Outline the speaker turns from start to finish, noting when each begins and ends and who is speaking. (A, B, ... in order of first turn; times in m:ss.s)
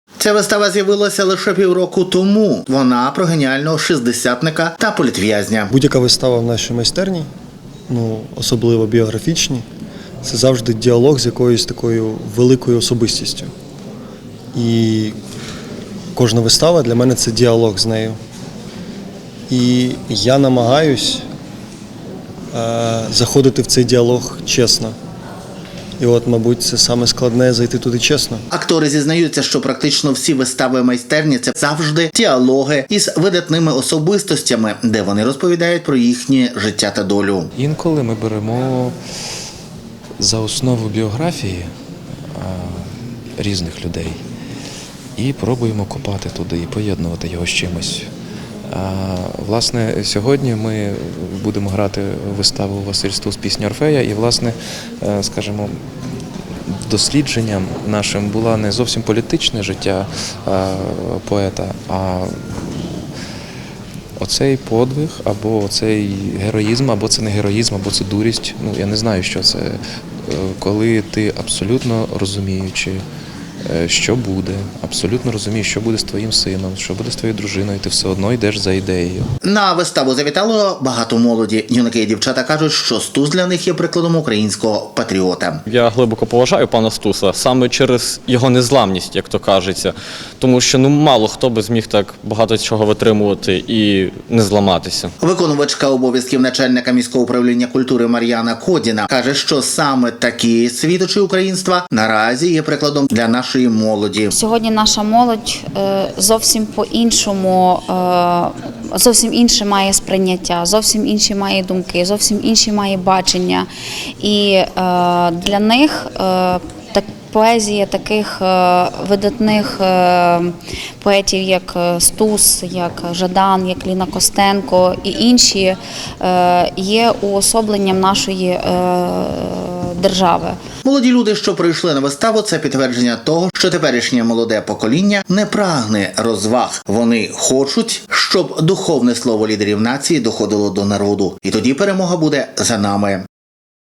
0:00.2-0:05.7 A
0:05.7-0:07.3 B
0:07.9-0:09.6 B
0:10.2-0:13.5 B
0:14.5-0:15.1 B
0:16.1-0:18.2 B
0:19.5-0:21.2 B
0:22.5-0:24.9 B
0:26.0-0:28.4 B
0:28.5-0:37.5 A
0:37.6-0:38.9 C
0:40.2-0:41.7 C
0:42.3-0:42.8 C
0:43.4-0:44.2 C
0:45.2-0:48.1 C
0:48.7-0:55.8 C
0:56.7-1:02.9 C
1:04.2-1:13.0 C
1:13.6-1:19.3 C
1:19.4-1:25.6 A
1:25.7-1:35.1 D
1:35.2-1:44.3 A
1:44.3-1:53.7 E
1:54.2-2:10.6 E
2:10.8-2:23.2 A